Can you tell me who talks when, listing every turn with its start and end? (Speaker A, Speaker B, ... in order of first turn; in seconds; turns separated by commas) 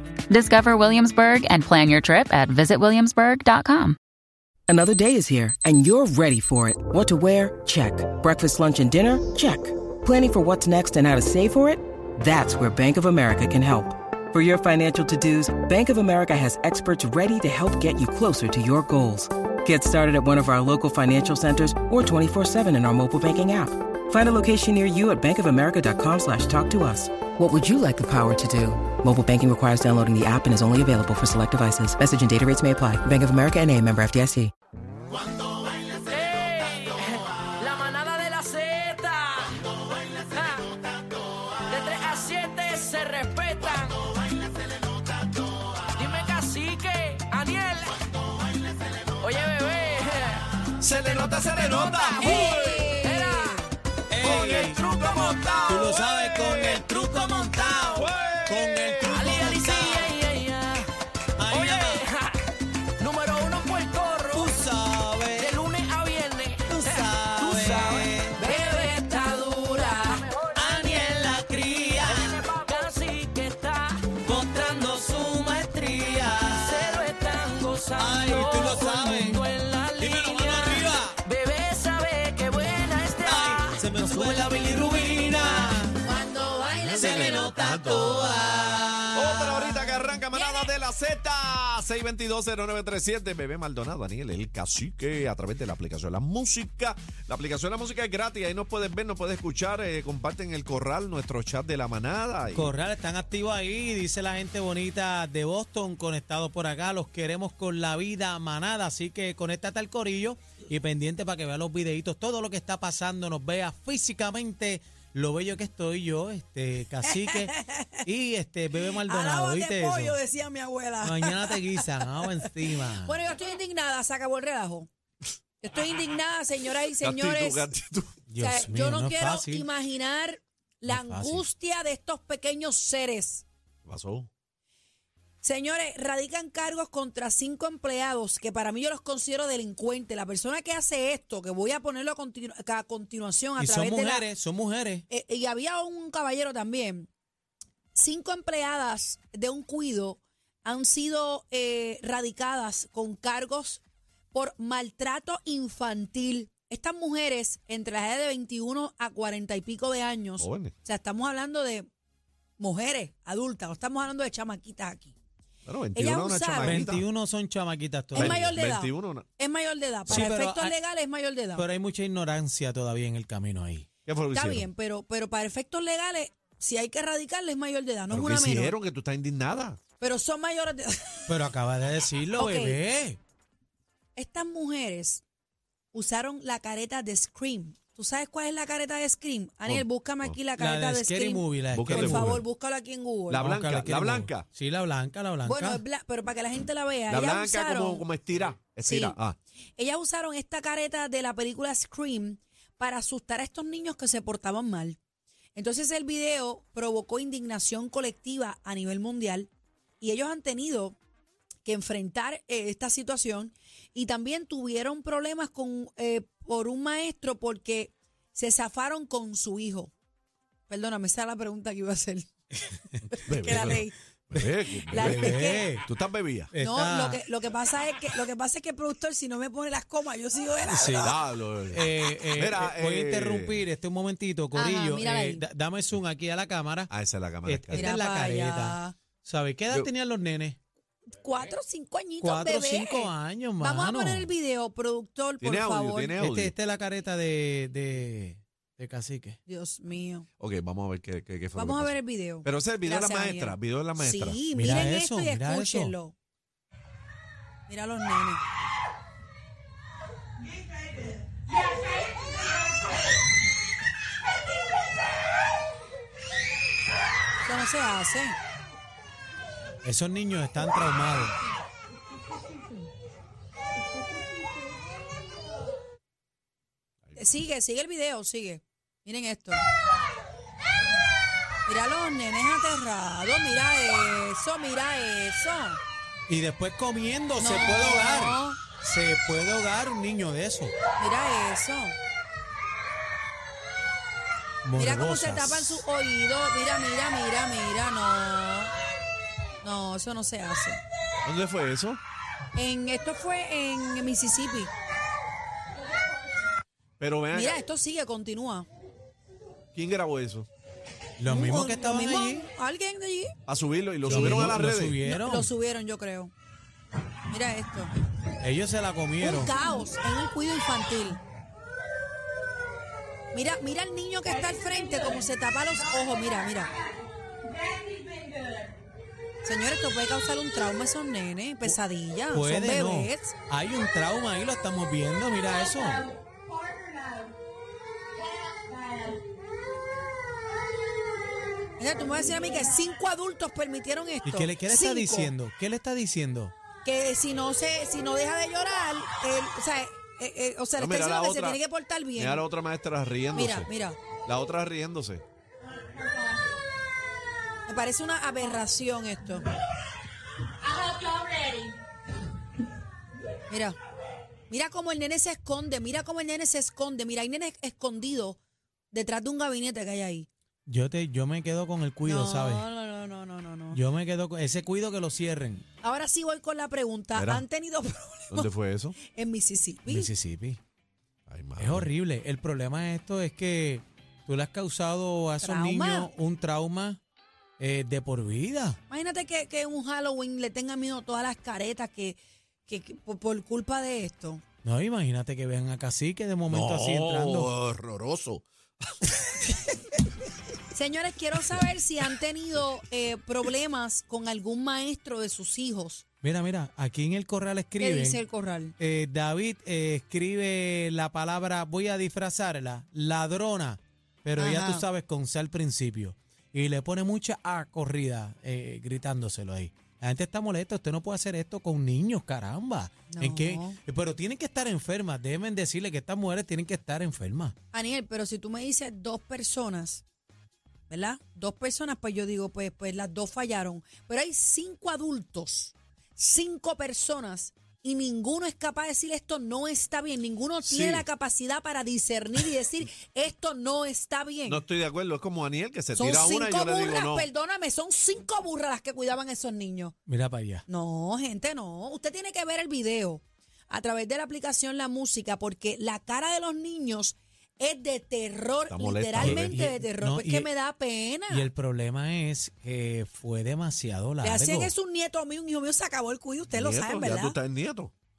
Speaker A: 0.3-4.0, Speaker B: 4.7-34.5, Speaker C: 36.0-40.7, Speaker C: 41.6-44.2, Speaker C: 45.9-48.0, Speaker C: 49.2-50.5, Speaker D: 50.8-52.9, Speaker C: 51.2-53.6, Speaker E: 52.2-53.7, Speaker F: 54.1-54.8, Speaker D: 54.2-56.8, Speaker C: 54.2-56.0, Speaker F: 55.6-60.2, Speaker C: 56.5-58.0, Speaker D: 57.9-59.3, Speaker C: 59.1-60.9, Speaker F: 61.4-62.1, Speaker C: 61.5-62.4, Speaker C: 63.0-64.6, Speaker F: 64.3-65.6, Speaker C: 65.4-71.0, Speaker F: 66.7-68.5, Speaker E: 68.5-70.2, Speaker F: 70.5-72.6, Speaker C: 72.0-74.1, Speaker F: 74.2-77.1, Speaker C: 76.5-84.6, Speaker F: 78.0-81.2, Speaker F: 83.2-86.0, Speaker E: 86.0-87.5, Speaker D: 86.7-88.5, Speaker F: 87.0-90.1, Speaker D: 89.1-102.7, Speaker E: 90.3-90.7, Speaker F: 102.5-120.2, Speaker E: 117.1-117.9, Speaker E: 119.0-122.1, Speaker F: 121.0-123.2, Speaker E: 122.7-124.9, Speaker E: 125.6-127.7, Speaker D: 127.0-128.2, Speaker F: 128.3-129.7, Speaker E: 128.4-133.4, Speaker F: 130.9-131.4, Speaker D: 133.8-134.3, Speaker E: 135.4-144.3, Speaker F: 143.6-145.0, Speaker E: 145.1-147.1, Speaker E: 147.9-153.8, Speaker E: 154.3-161.9, Speaker D: 160.4-160.7, Speaker E: 162.6-165.1, Speaker D: 165.7-167.0, Speaker E: 165.9-166.8, Speaker F: 166.6-168.6, Speaker D: 168.1-169.3, Speaker E: 168.2-171.7, Speaker F: 170.1-170.8, Speaker F: 171.6-173.9, Speaker D: 174.1-174.7, Speaker E: 174.3-178.8, Speaker D: 178.1-179.8, Speaker E: 180.0-181.3, Speaker F: 181.3-183.2, Speaker E: 182.3-182.8, Speaker E: 184.2-185.2, Speaker E: 185.9-193.5, Speaker D: 189.7-190.4, Speaker F: 190.6-192.4, Speaker D: 191.7-192.4, Speaker D: 193.3-194.4, Speaker F: 193.4-195.8, Speaker E: 195.4-198.1, Speaker D: 197.1-199.4, Speaker E: 198.8-199.2, Speaker E: 199.8-205.0, Speaker E: 205.6-209.5, Speaker E: 210.0-211.0, Speaker E: 211.6-219.9, Speaker E: 220.7-222.3, Speaker F: 223.0-223.6, Speaker D: 223.3-223.8, Speaker E: 223.3-223.9, Speaker D: 224.3-226.5, Speaker E: 224.9-225.7, Speaker F: 224.9-225.9, Speaker F: 226.5-227.2, Speaker E: 226.6-231.1, Speaker F: 230.7-231.2, Speaker D: 231.0-233.7, Speaker F: 231.7-236.9, Speaker E: 234.5-235.4, Speaker D: 236.9-237.9, Speaker F: 237.4-240.6, Speaker E: 237.7-239.0, Speaker E: 241.1-246.2, Speaker F: 242.2-244.3, Speaker D: 245.4-246.5, Speaker F: 246.2-249.4, Speaker E: 249.4-250.2, Speaker D: 250.4-251.9, Speaker E: 251.5-256.1, Speaker D: 252.4-254.4, Speaker F: 254.5-255.9, Speaker E: 257.7-258.4, Speaker E: 267.4-268.4, Speaker F: 269.8-271.3, Speaker E: 277.1-279.6, Speaker E: 281.6-285.8, Speaker F: 286.3-290.8, Speaker E: 287.4-288.6, Speaker E: 291.0-291.9, Speaker F: 294.6-295.8, Speaker E: 294.8-298.7, Speaker E: 299.6-300.8, Speaker D: 301.2-302.0, Speaker E: 302.5-304.7, Speaker D: 307.0-307.6, Speaker E: 307.3-308.7, Speaker D: 309.7-310.5, Speaker F: 311.2-312.5, Speaker E: 311.3-313.3, Speaker D: 313.5-315.0, Speaker F: 314.0-315.5, Speaker E: 314.1-314.4, Speaker E: 315.0-316.3, Speaker E: 317.3-317.9, Speaker F: 318.4-319.5, Speaker E: 319.2-321.2, Speaker E: 323.3-326.7, Speaker E: 329.4-333.3, Speaker F: 332.3-336.1, Speaker E: 341.8-345.3, Speaker F: 344.2-346.5, Speaker E: 346.8-352.4, Speaker D: 350.8-351.6, Speaker D: 352.1-353.7, Speaker E: 353.3-354.0, Speaker D: 354.2-355.2, Speaker E: 357.6-359.4, Speaker E: 363.5-363.8, Speaker E: 364.5-368.4, Speaker E: 368.9-370.3, Speaker F: 370.7-372.6, Speaker E: 372.0-373.8, Speaker F: 373.7-375.6, Speaker E: 375.8-378.5, Speaker D: 377.1-377.4, Speaker D: 378.3-379.0, Speaker E: 379.0-380.1, Speaker F: 379.9-380.6, Speaker D: 381.3-381.9, Speaker F: 381.6-387.0, Speaker E: 385.4-386.1, Speaker F: 387.6-388.8, Speaker E: 388.9-394.4, Speaker F: 394.6-397.5, Speaker D: 396.5-398.4, Speaker E: 400.7-406.0, Speaker F: 406.2-408.2, Speaker E: 407.8-408.8, Speaker F: 408.8-427.5, Speaker E: 414.4-414.9, Speaker E: 423.1-423.8, Speaker E: 427.7-430.0, Speaker E: 430.9-444.6, Speaker D: 440.6-441.1, Speaker D: 444.5-447.3, Speaker E: 445.9-449.9, Speaker F: 450.1-450.6, Speaker E: 450.7-461.5, Speaker D: 458.7-459.6, Speaker F: 459.2-460.5, Speaker F: 461.3-464.7, Speaker E: 464.2-467.4, Speaker D: 466.5-467.9